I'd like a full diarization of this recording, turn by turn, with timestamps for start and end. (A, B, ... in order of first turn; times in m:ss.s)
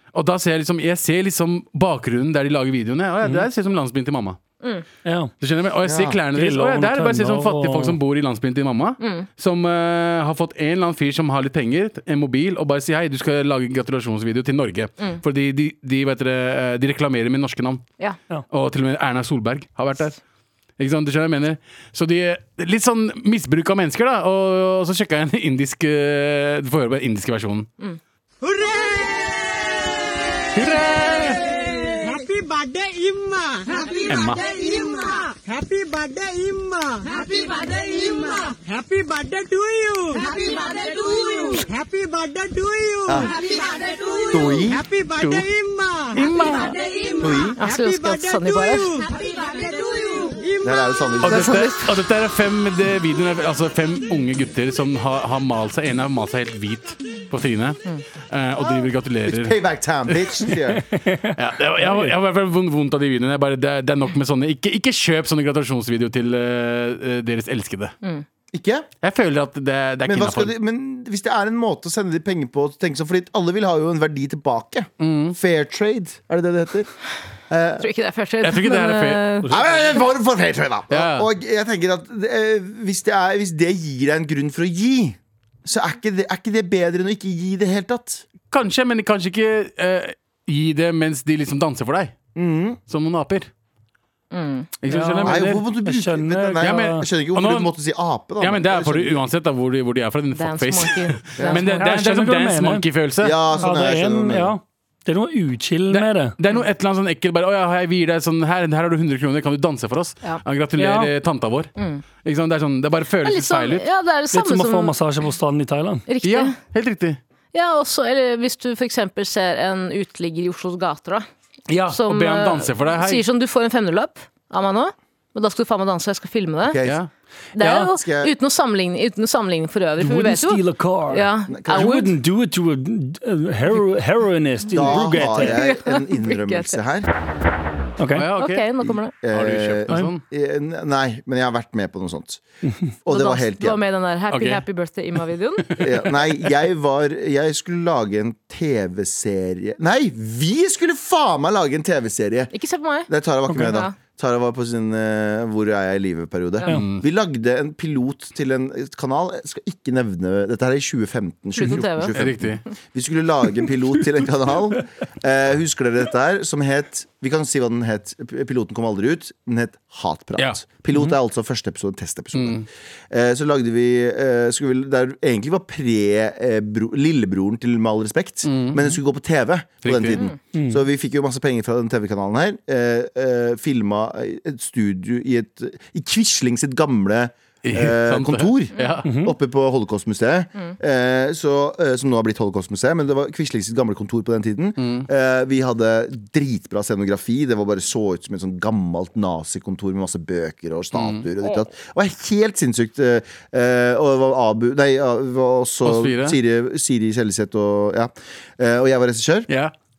0:00.1-0:04.4 A
0:05.0-0:05.3 B
0:05.4-0:17.8 A
0:05.8-0:06.2 C
0:06.3-0:08.0 B
0:09.0-0:09.2 D
0:18.5-0:20.2 A
0:20.8-0:27.7 A
0:28.4-0:50.9 E
0:30.5-0:31.5 A
0:34.1-0:34.4 A
0:43.1-0:43.3 C
0:44.3-0:44.8 C
0:45.2-0:45.4 A
0:46.1-0:46.8 A
0:47.2-0:47.6 C
0:47.6-0:48.9 D
0:50.6-0:51.6 C
0:51.2-0:51.9 D
0:51.2-1:00.5 A
0:58.6-1:00.9 C
1:00.5-1:02.1 B
1:01.3-1:07.9 A
1:08.5-1:08.9 C
1:09.0-1:10.5 A
1:10.0-1:16.9 C
1:15.0-1:15.4 A
1:17.5-1:17.9 C
1:17.8-1:19.5 D
1:18.4-1:19.5 A
1:19.4-1:28.2 C
1:20.9-1:21.3 A
1:28.5-1:32.2 A
1:32.3-1:32.8 C
1:32.9-1:33.5 A
1:34.3-1:34.7 D
1:34.8-1:35.6 A
1:34.9-1:37.1 B
1:35.2-1:39.2 C
1:36.6-1:37.7 A
1:38.4-1:43.4 A
1:40.3-1:41.8 D
1:41.4-1:41.6 C
1:41.8-1:42.8 B
1:43.2-1:44.5 C
1:43.6-1:46.3 B
1:45.9-1:51.7 A
1:50.8-1:51.1 B
1:51.8-1:52.0 D
1:52.2-1:53.8 A
1:53.2-1:54.9 D
1:54.3-1:56.0 B
1:56.1-1:56.5 D
1:56.2-1:57.2 A
1:57.5-2:01.2 D
2:01.7-2:03.2 A
2:01.9-2:06.8 D
2:06.6-2:07.0 C
2:06.8-2:07.1 A
2:07.6-2:12.1 D
2:07.6-2:07.9 B
2:07.9-2:08.3 C
2:10.0-2:15.5 B
2:11.5-2:12.0 C
2:14.7-2:17.1 C
2:14.8-2:16.8 D
2:18.0-2:18.2 B
2:18.2-2:18.7 A
2:18.3-2:19.1 D
2:18.8-2:22.4 C
2:19.3-2:20.2 A
2:23.0-2:23.8 C
2:23.1-2:25.7 D
2:24.3-2:24.6 A
2:25.8-2:32.5 C
2:32.5-2:33.1 D
2:33.1-3:29.5 C
2:33.5-2:33.8 B
2:33.6-2:33.9 D
2:36.6-2:37.0 A
2:41.5-2:42.1 D
2:42.1-2:42.6 A
2:52.3-2:52.6 A
2:58.4-2:59.0 A
2:59.8-3:00.2 A
3:00.5-3:00.8 B
3:07.6-3:09.0 A
3:08.8-3:09.0 D
3:09.0-3:09.3 B
3:14.8-3:15.1 A
3:20.9-3:21.2 A
3:25.8-3:26.4 A